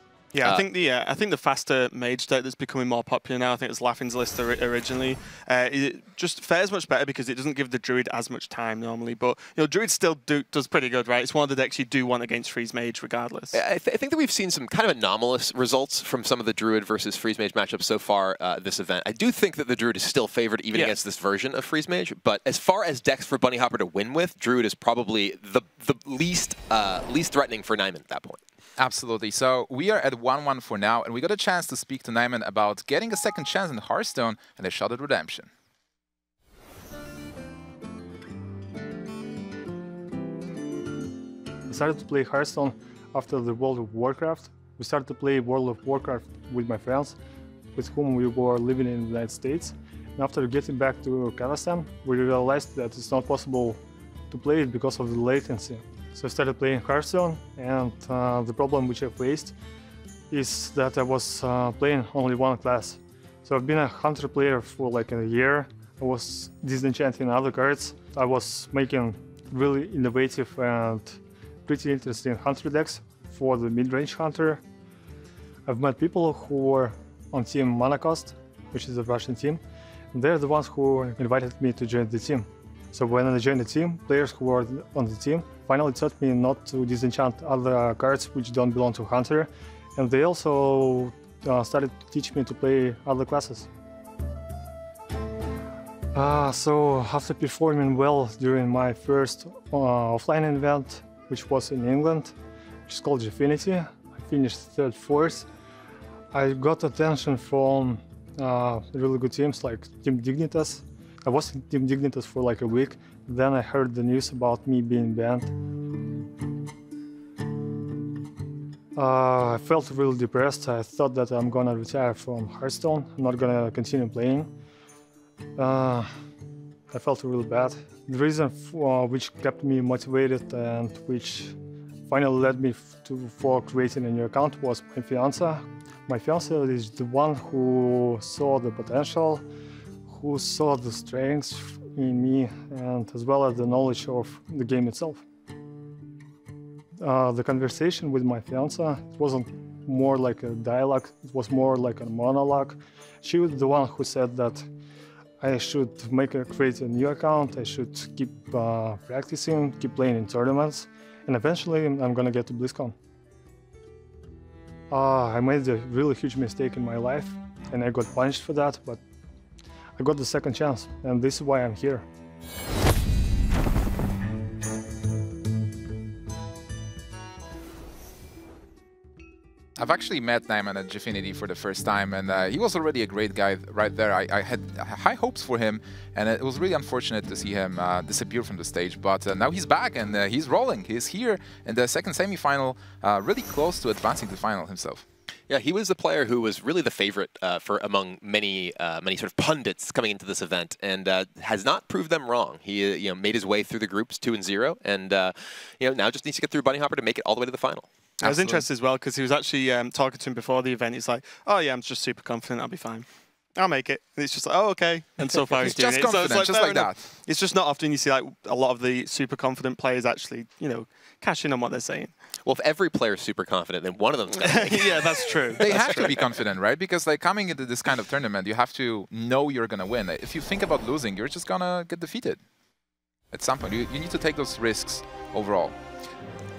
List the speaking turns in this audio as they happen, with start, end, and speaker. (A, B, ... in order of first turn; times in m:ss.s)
0:00.3-0:13.6 A
0:13.5-0:28.4 B
0:28.8-0:35.5 C
0:41.7-0:47.2 D
0:47.8-0:53.8 D
0:54.3-0:59.6 D
1:00.3-1:14.6 D
1:15.7-1:19.6 D
1:20.1-1:33.7 D
1:36.1-1:42.4 D
1:42.9-1:45.5 D
1:46.3-1:55.6 D
1:59.0-2:04.5 D
2:05.6-2:06.1 D
2:06.9-2:19.4 D
2:20.1-2:25.2 D
2:27.0-2:34.7 D
2:35.4-2:43.0 D
2:44.9-2:49.0 D
2:50.0-2:52.0 D
2:59.8-3:15.0 C
3:15.5-3:27.9 B
3:28.2-3:28.6 C
3:28.2-3:42.1 A
3:35.5-3:37.0 C
3:42.4-3:46.1 B
3:44.4-3:46.2 A
3:45.6-3:52.4 C
3:53.3-3:55.8 C